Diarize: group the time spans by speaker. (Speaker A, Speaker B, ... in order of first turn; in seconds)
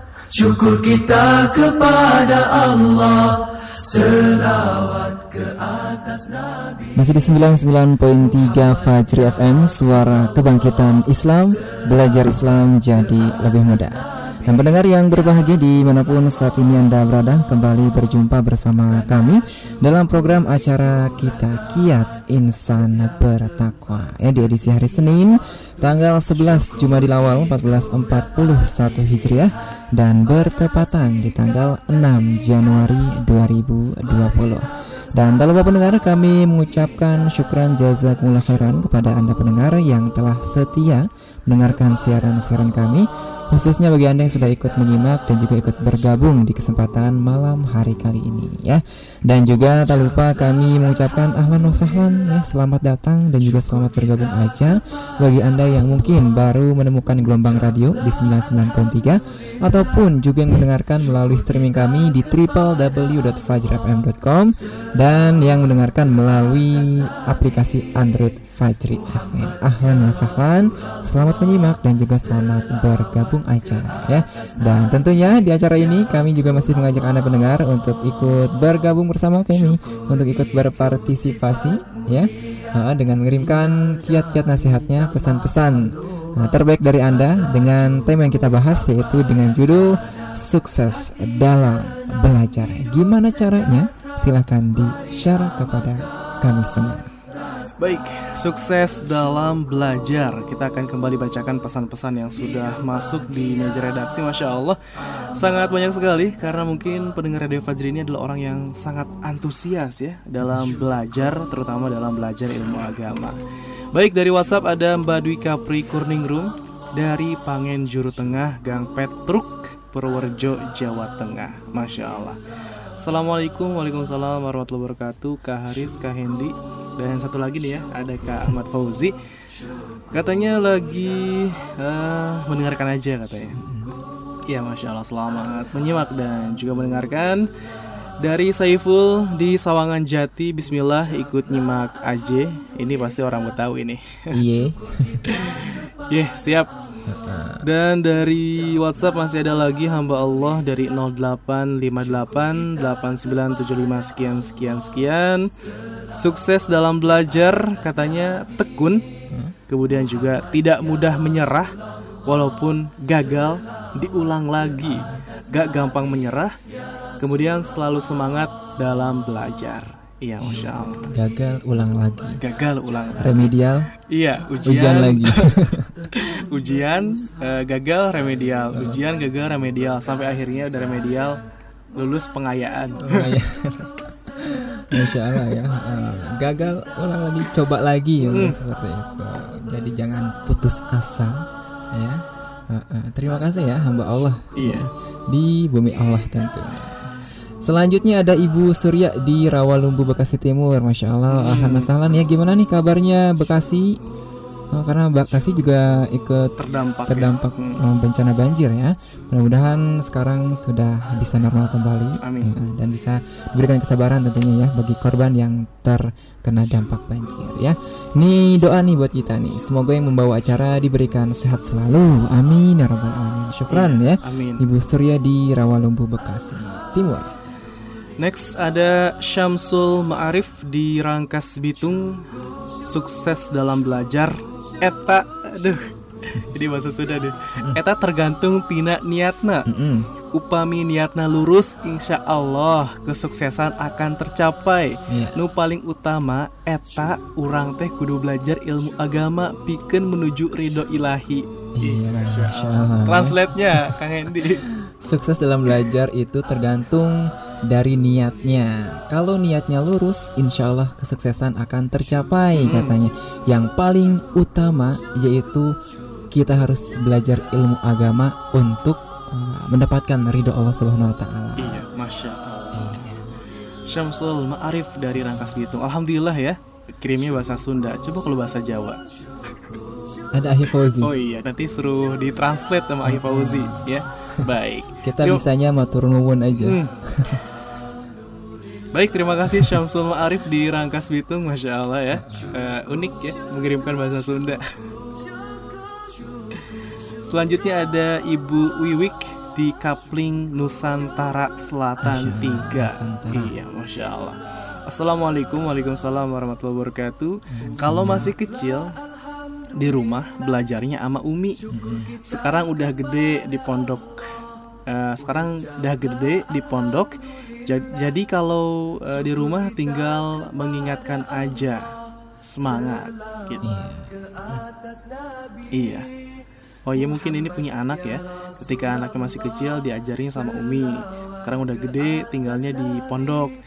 Speaker A: 0.3-6.9
Speaker B: 7.0-34.7, 35.2-97.1, 133.6-133.9, 144.3-145.3, 147.1-147.7, 159.3-159.6, 164.9-165.2, 170.4-172.4, 173.2-173.9, 174.7-175.9, 178.7-179.0, 183.0-191.4, 191.9-197.1, 197.6-204.0, 204.7-206.6, 207.1-227.3, 239.7-240.1, 245.1-245.4, 251.8-254.0, 254.8-265.7, 266.3-271.8, 272.7-273.4, 275.2-275.5, 280.3-281.1, 283.1-284.5, 285.0-287.4, 292.1-292.6, 302.0-303.5, 307.5-308.3, 311.7-312.2, 323.6-324.7
Speaker C: 97.8-104.8, 105.4-113.4, 113.9-122.4, 123.0-129.1, 130.1-133.6, 134.5-137.4, 138.2-144.3, 145.3-146.7, 147.6-155.5, 156.2-159.0, 159.7-161.7, 162.3-166.5, 167.2-171.1, 172.4-173.5, 174.1-175.5, 176.1-181.4, 181.9-183.3, 184.9-185.4, 188.2-188.6, 194.6-194.9, 201.3-201.9, 206.6-207.8, 212.2-212.5, 223.7-224.7, 228.2-232.2, 232.9-239.7, 240.3-254.6, 262.5-263.0, 271.6-273.1, 273.9-279.0, 281.0-285.4, 286.6-287.0, 288.9-294.6, 297.2-308.9, 309.8-311.6, 312.2-314.1, 314.9-317.1, 317.7-321.9, 322.5-323.6, 325.7-326.1, 326.9-333.6